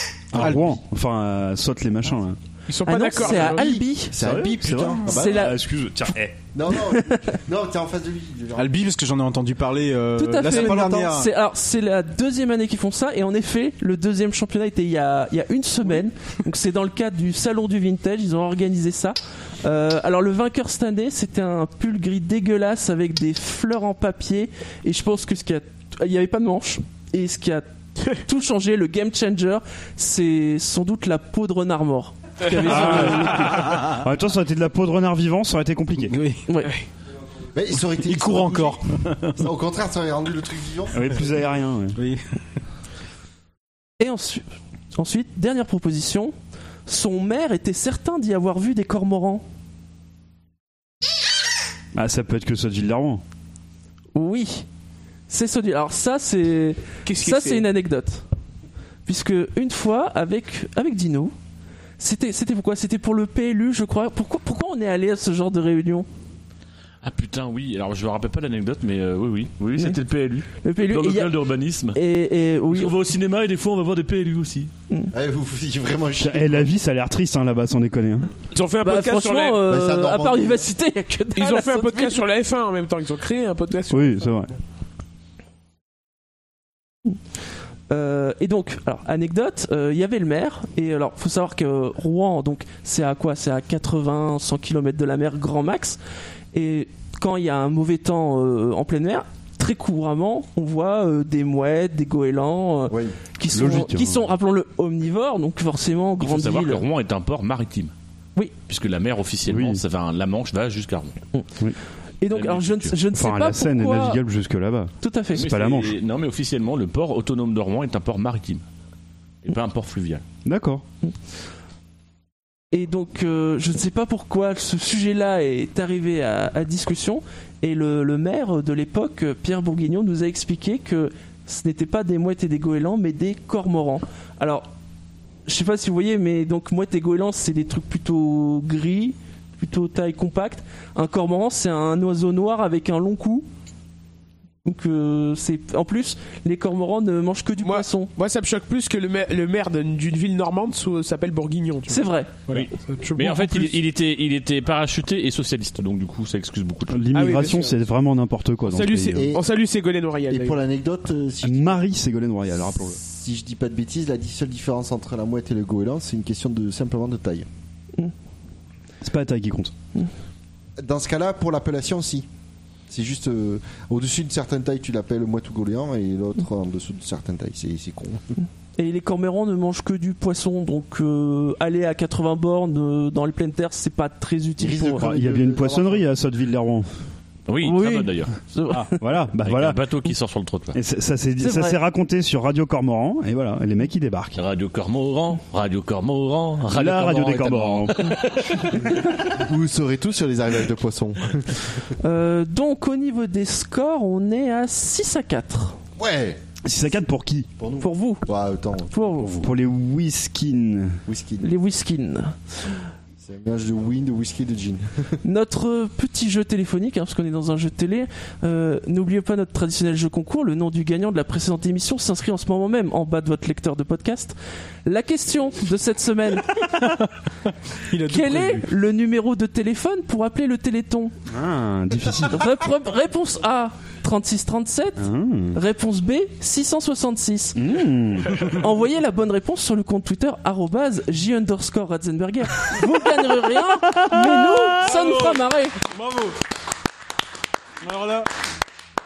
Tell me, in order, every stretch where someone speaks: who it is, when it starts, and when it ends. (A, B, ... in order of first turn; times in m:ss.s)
0:00.3-0:02.4 A
0:00.3-0:00.8 B
0:02.7-0:03.8 C
0:02.8-0:04.2 D
0:03.2-0:05.5 E
0:04.2-0:06.4 A
0:05.0-0:05.6 D
0:06.5-0:08.7 E
0:06.9-0:07.2 D
0:08.6-0:11.3 B
0:10.2-0:33.7 D
0:10.4-0:11.1 E
0:32.6-0:36.2 A
0:32.9-0:34.0 B
0:36.0-0:36.4 B
0:36.5-0:36.7 D
0:37.5-0:38.8 E
0:38.0-0:39.4 B
0:39.4-0:41.0 E
0:40.9-0:42.0 A
0:42.0-0:42.2 B
0:44.0-0:44.4 D
0:44.9-0:46.3 D
0:46.9-0:49.4 D
0:51.9-0:53.2 A
0:54.1-0:54.7 D
0:55.3-0:58.2 D
0:57.0-0:57.6 C
0:59.0-1:01.3 D
1:02.0-1:06.1 D
1:07.0-1:12.0 F
1:10.6-1:11.3 D
1:11.9-1:12.9 D
1:12.7-1:14.7 F
1:15.1-1:16.7 E
1:16.2-1:18.3 A
1:18.5-1:19.6 C
1:18.8-1:22.2 D
1:19.6-1:20.6 E
1:21.4-1:24.4 C
1:23.9-1:24.5 A
1:27.9-1:36.0 D
1:36.5-1:46.8 D
1:42.9-1:43.2 E
1:43.5-1:44.2 A
1:46.2-1:47.9 F
1:48.6-1:51.2 F
1:49.5-1:49.8 A
1:52.2-1:54.2 D
1:52.3-1:53.0 F
1:53.1-1:55.9 A
1:55.0-1:55.5 D
1:55.4-1:58.6 F
1:59.4-2:00.2 F
2:00.4-2:00.8 A
2:02.7-2:14.7 D
2:15.4-2:23.5 D
2:24.6-2:28.1 D
2:27.6-2:33.8 C
2:31.9-2:32.3 D
2:32.5-2:37.1 F
2:36.9-2:39.3 A
2:37.1-2:37.8 C
2:38.7-2:40.6 C
2:39.2-2:39.4 E
2:40.3-2:41.8 E
2:41.4-2:43.0 A
2:42.7-2:47.4 E
2:49.0-2:49.7 A
2:50.8-2:52.3 E
2:52.9-2:58.3 E
2:58.8-3:05.1 D
3:04.6-3:06.0 E
3:04.9-3:06.9 A
3:07.5-3:08.3 F
3:07.6-3:08.9 D
3:09.0-3:09.8 A
3:09.4-3:10.8 F
3:10.7-3:14.4 A
3:11.4-3:11.8 D
3:14.4-3:18.8 F
3:16.7-3:18.1 A
3:19.1-3:21.7 E
3:22.0-3:25.8 D
3:26.0-3:26.4 E
3:26.6-3:27.5 A
3:27.6-3:28.9 E
3:27.8-3:28.2 D
3:28.9-3:29.3 D
3:29.4-3:31.0 A
3:31.1-3:31.5 E
3:31.4-3:32.3 D
3:33.2-3:35.1 E
3:35.2-3:46.7 D
3:47.9-3:48.7 B
3:48.1-3:51.1 D
3:51.3-3:52.4 A
3:52.2-3:57.6 D
3:55.0-3:55.6 A
3:57.6-3:58.6 A
3:58.3-4:05.8 D
4:03.8-4:04.9 A
4:04.9-4:06.4 B
4:07.8-4:08.3 B